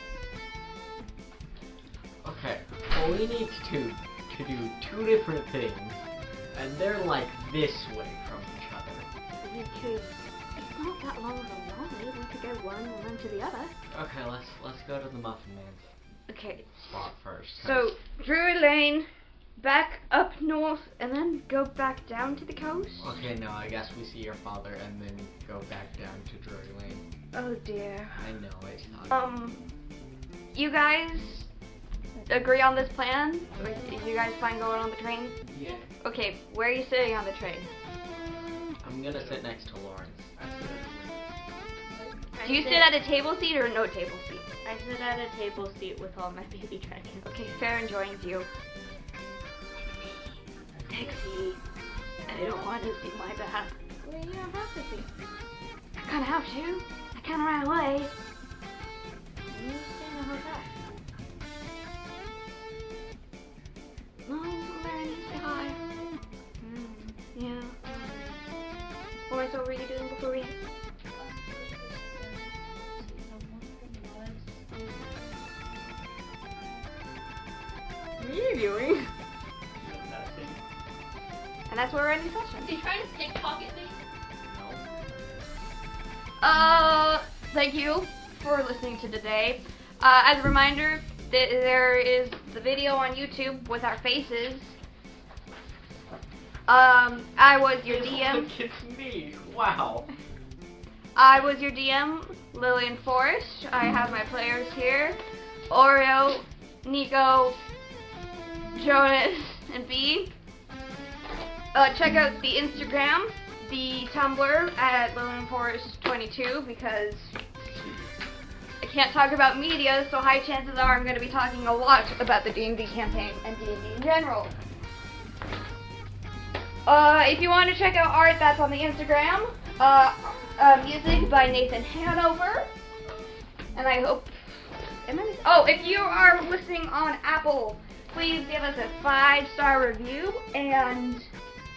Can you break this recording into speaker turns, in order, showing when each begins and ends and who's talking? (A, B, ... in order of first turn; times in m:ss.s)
0:02.2-0:09.1 A
0:09.4-0:13.7 B
0:13.9-0:15.9 A
0:16.3-0:16.7 B
0:16.8-0:17.9 A
0:17.6-0:23.1 B
0:23.0-0:27.0 A
0:27.3-0:28.2 B
0:28.2-0:29.1 A
0:29.1-0:29.6 B
0:30.5-0:31.5 B
0:32.3-0:35.4 B
0:35.5-0:35.9 C
0:36.0-0:37.7 B
0:38.8-0:40.3 A
0:39.1-0:39.5 C
0:40.3-0:41.4 C
0:41.8-0:42.3 D
0:42.4-0:42.9 E
0:42.4-0:44.4 B
0:44.6-0:47.3 E
0:47.2-0:48.5 B
0:49.8-0:50.4 B
0:50.9-0:51.6 B
0:52.3-0:53.8 B
0:52.3-0:52.7 E
0:54.0-0:55.1 E
0:56.0-0:58.1 B
0:59.5-1:00.7 E
1:04.2-1:05.8 B
1:06.6-1:08.4 B
1:09.3-1:10.6 B
1:11.1-1:16.0 D
1:18.2-1:19.1 E
1:19.7-1:20.6 A
1:21.7-1:22.7 B
1:22.6-1:24.0 D
1:24.4-1:24.8 A
1:26.4-1:34.8 B
1:36.7-1:38.5 B
1:37.8-1:40.1 A
1:41.2-1:47.6 B
1:48.7-1:50.3 B
1:51.7-1:57.3 B
1:58.8-2:04.5 B
2:06.8-2:12.7 B
2:13.7-2:14.4 B
2:15.0-2:21.3 B